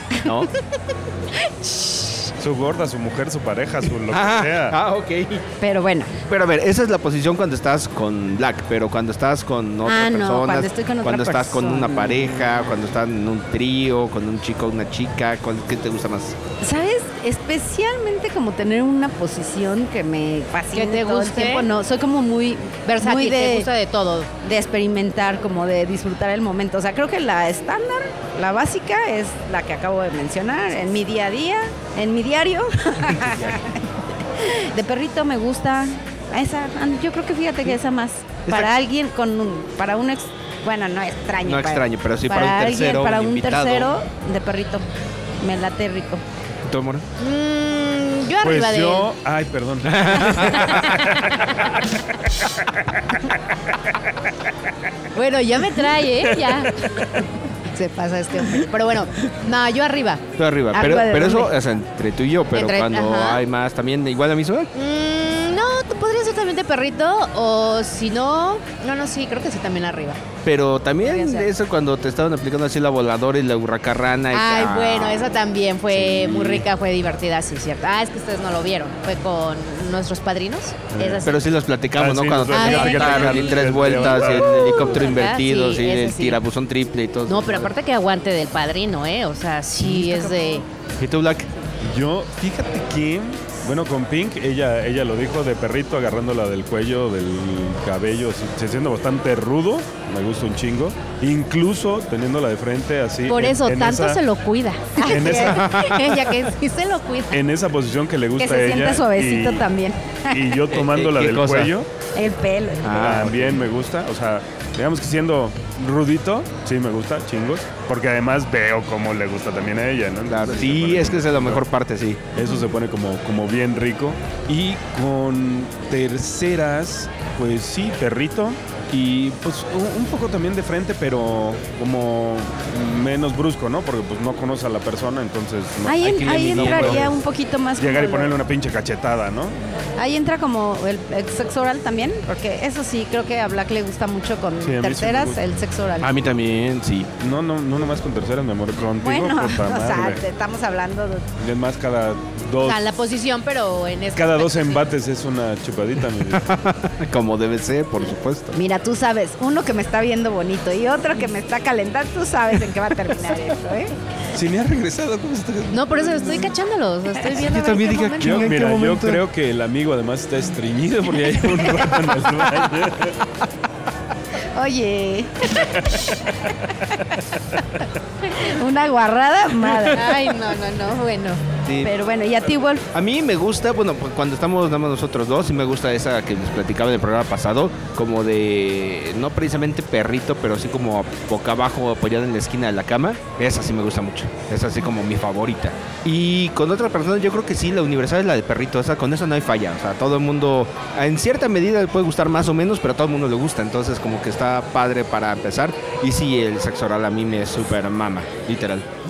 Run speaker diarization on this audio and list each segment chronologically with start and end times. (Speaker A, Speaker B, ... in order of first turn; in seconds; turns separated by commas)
Speaker A: 0.2-0.5, Speaker B: 1.7-2.1, Speaker C: 2.4-4.8, Speaker A: 4.1-5.5, Speaker B: 5.6-6.1, Speaker A: 6.3-16.4, Speaker B: 9.8-12.3, Speaker B: 16.6-23.7, Speaker D: 20.7-21.7, Speaker D: 22.9-24.3, Speaker B: 24.4-44.9, Speaker A: 33.1-33.6, Speaker A: 41.4-43.9, Speaker B: 45.4-46.2, Speaker A: 46.6-47.1, Speaker D: 47.2-49.1, Speaker C: 48.4-51.4, Speaker A: 49.8-51.0, Speaker D: 55.1-56.9, Speaker C: 56.3-57.2, Speaker D: 57.8-60.2, Speaker A: 60.4-64.7, Speaker B: 60.7-61.5, Speaker D: 62.5-63.4, Speaker D: 64.7-70.2, Speaker A: 70.5-75.3, Speaker D: 71.0-71.5, Speaker D: 74.3-81.4, Speaker A: 75.9-76.7, Speaker C: 80.9-81.3, Speaker A: 81.2-87.7, Speaker C: 81.9-85.0, Speaker D: 82.5-86.4, Speaker D: 87.3-90.6, Speaker B: 89.8-90.4, Speaker A: 91.0-91.5, Speaker C: 91.8-104.2, Speaker D: 103.3-107.4, Speaker B: 105.0-105.6, Speaker C: 105.0-105.8, Speaker A: 105.4-106.0, Speaker C: 107.3-109.7, Speaker B: 108.4-110.6, Speaker C: 110.3-111.9, Speaker A: 110.7-111.7, Speaker B: 112.2-113.1, Speaker A: 112.8-113.6, Speaker C: 112.9-121.6, Speaker A: 120.3-122.2, Speaker C: 122.3-137.2, Speaker B: 135.8-138.3, Speaker A: 136.0-137.1, Speaker C: 137.8-139.6, Speaker B: 140.0-146.2, Speaker C: 144.6-145.4, Speaker A: 146.0-147.1, Speaker C: 147.2-150.2, Speaker B: 149.0-151.3, Speaker C: 151.4-152.8, Speaker D: 152.6-154.8, Speaker C: 154.2-156.5, Speaker A: 156.3-158.6, Speaker B: 158.5-163.9, Speaker C: 164.3-166.2, Speaker D: 165.7-168.6, Speaker A: 167.3-169.2, Speaker C: 168.2-173.2, Speaker B: 174.6-175.7, Speaker C: 175.7-177.2, Speaker B: 178.3-180.1, Speaker D: 179.9-181.4, Speaker A: 181.7-181.9, Speaker B: 181.8-182.9, Speaker A: 182.9-208.9